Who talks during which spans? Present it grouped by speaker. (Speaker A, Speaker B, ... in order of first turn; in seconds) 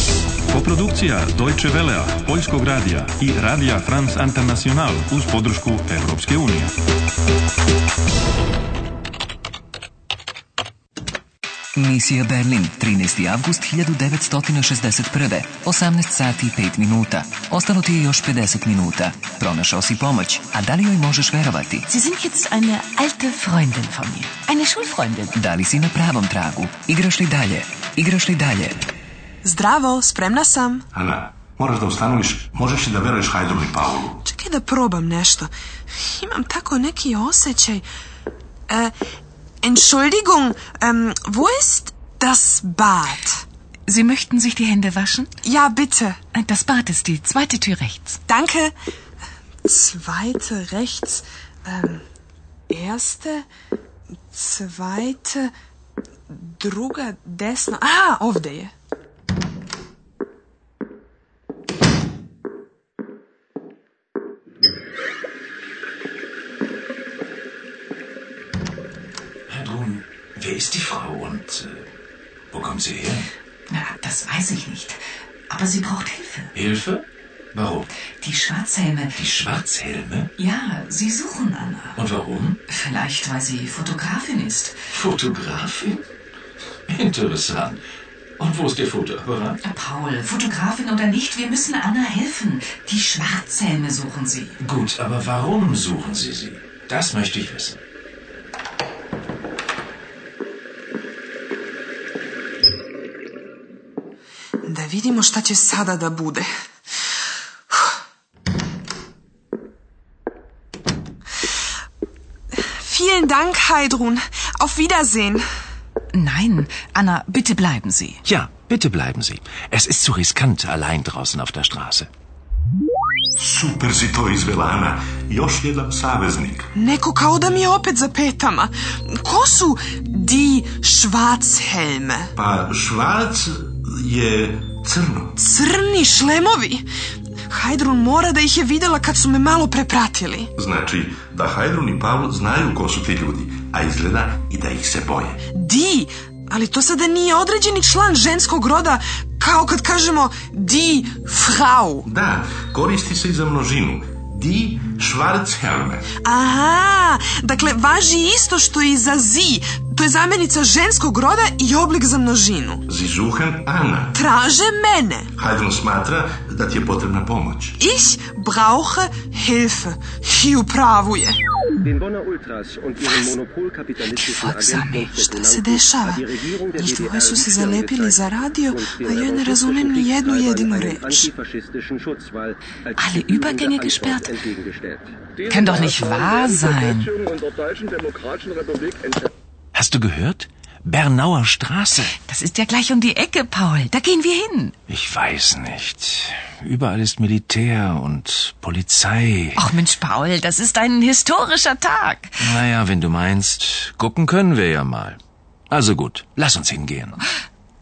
Speaker A: 0.5-6.7
Speaker B: 11.8-21.9, 25.3-28.8
Speaker C: 21.9-25.4, 43.9-45.3, 46.3-48.2, 73.7-76.5, 78.2-79.2, 80.3-82.0, 82.7-84.8, 89.6-94.6, 116.1-118.2, 174.1-175.2, 182.9-184.4, 185.4-187.1, 192.1-194.7, 199.6-202.4
Speaker D: 29.4-30.9, 34.2-37.8, 38.7-38.9, 39.6-43.4, 45.4-46.2, 48.3-48.7, 49.6-52.0, 52.7-53.5, 54.3-55.5, 56.3-58.7, 104.6-106.5, 112.7-115.4, 126.7-132.3, 135.4-136.8, 137.5-140.5, 145.5-152.1, 156.2-162.8, 164.1-165.3, 167.8-171.4, 175.3-181.3
Speaker E: 30.9-34.2, 123.4-126.6, 132.4-135.3, 140.6-145.4, 152.1-155.9, 162.9-164.1, 165.4-167.7
Speaker F: 69.5-71.9, 72.5-73.3, 76.5-77.9, 79.1-80.3, 82.0-82.6, 84.9-86.0, 86.9-87.8, 88.4-89.6, 94.6-97.8, 118.2-122.1, 189.7-192.1, 194.9-199.6, 202.4-205.2, 205.7-207.2
Speaker G: 172.0-173.9, 174.8-175.4, 178.9-179.6, 181.3-182.5, 184.4-185.0